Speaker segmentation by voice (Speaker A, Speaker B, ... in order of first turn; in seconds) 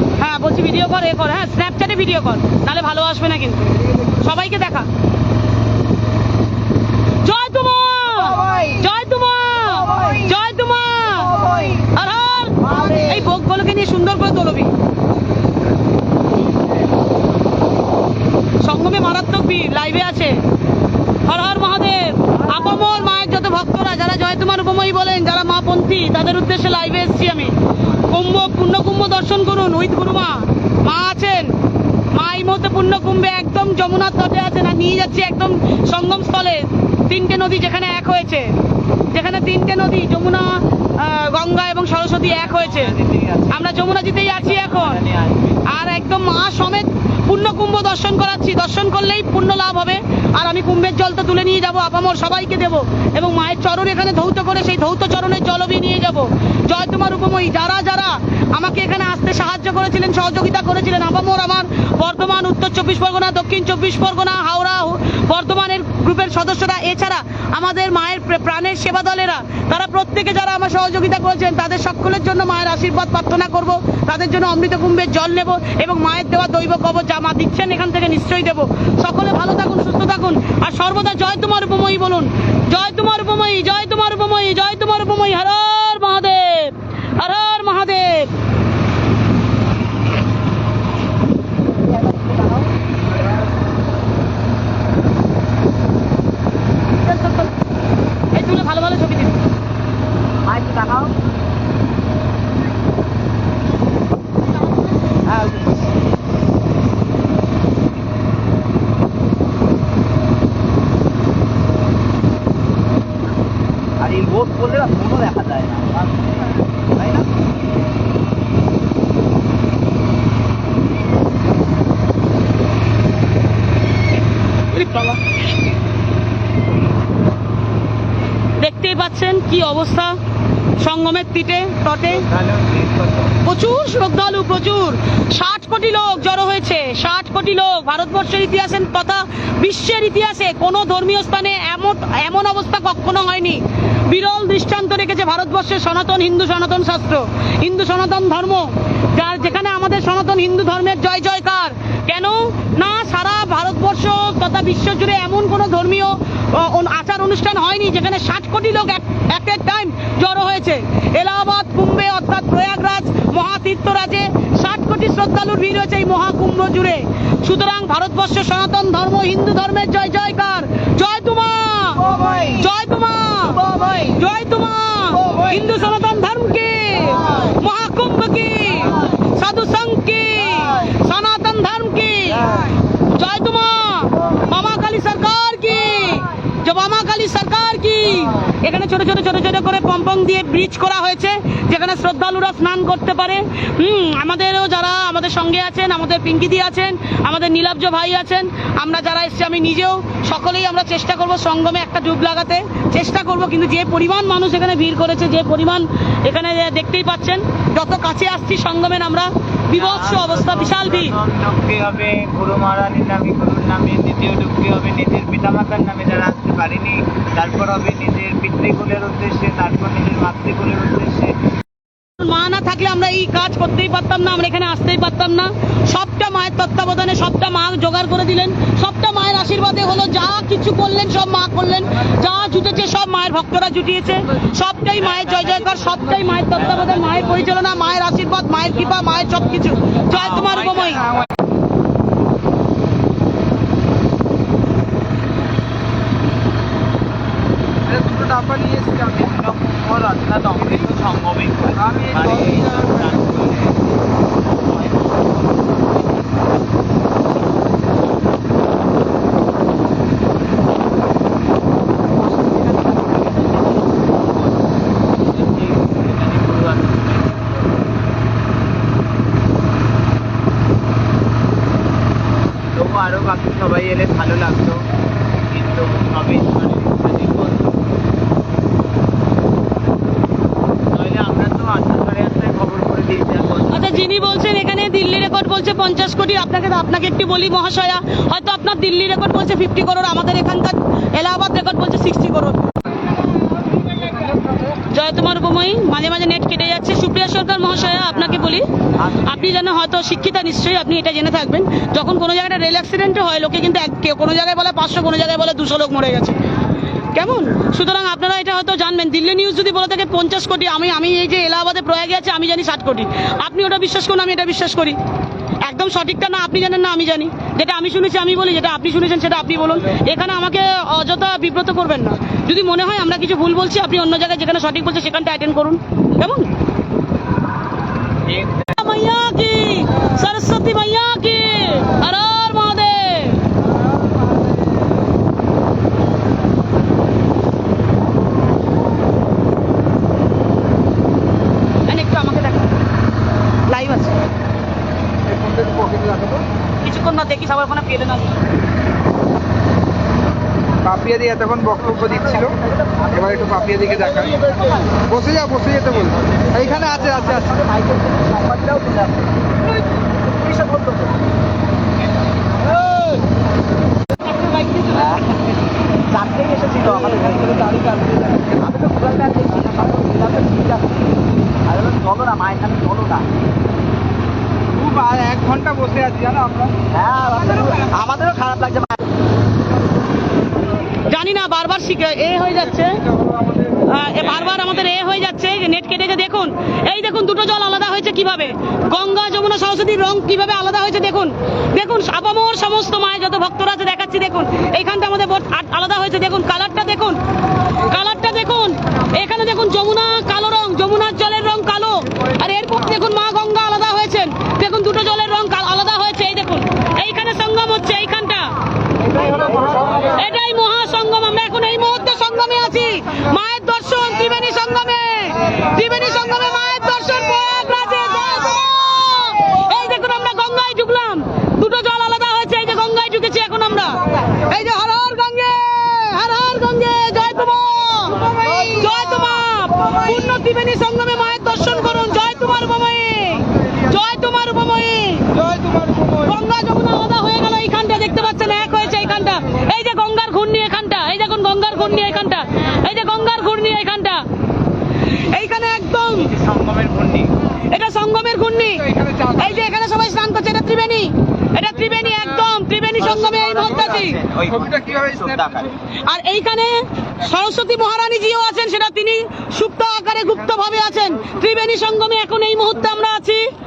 Speaker A: 0.1-4.9, 7.2-14.7, 18.6-20.3, 21.2-31.5, 32.1-38.5, 39.1-43.0, 43.5-45.0, 45.6-88.3, 97.0-97.5, 98.3-99.4, 124.7-125.2, 128.6-130.1, 130.8-132.3, 133.4-173.6, 174.1-211.1, 222.2-241.1, 262.3-263.0, 283.7-292.6, 294.9-306.4, 307.1-315.0, 315.6-326.5, 328.7-333.5, 341.9-342.8, 343.7-344.1, 346.8-348.4, 364.3-365.1, 381.0-383.0, 383.6-397.2, 397.8-408.5, 409.2-435.4, 436.1-444.2, 445.1-446.3, 447.6-454.2, 456.0-463.4
Speaker B: 8.0-8.9, 9.6-10.3, 11.1-11.9, 12.6-13.3, 92.0-92.6, 100.4-101.1, 105.2-105.8, 114.0-116.1, 117.0-117.3, 172.0-172.7, 173.5-174.2, 175.2-175.7, 177.1-177.5, 180.4-180.9, 182.3-182.7, 298.1-298.6, 352.0-355.1, 356.9-359.4, 359.9-361.2, 364.9-365.5, 366.1-367.8, 368.4-370.9, 371.7-373.3, 376.9-379.0, 428.4-429.5, 453.1-454.6
Speaker C: 42.3-43.7, 44.3-45.6, 132.1-133.4, 209.7-221.3, 235.1-235.6, 240.5-241.2, 249.2-253.9, 265.2-267.9, 272.7-274.8, 275.5-277.9, 280.9-284.1, 328.2-328.7, 355.9-357.1, 384.2-384.9, 446.2-447.3, 453.0-455.7
Speaker D: 247.8-249.2, 251.8-253.1, 345.3-346.4, 350.8-352.5, 353.3-354.4, 355.1-357.5, 367.7-368.4, 374.8-376.7, 435.5-436.2, 454.7-455.3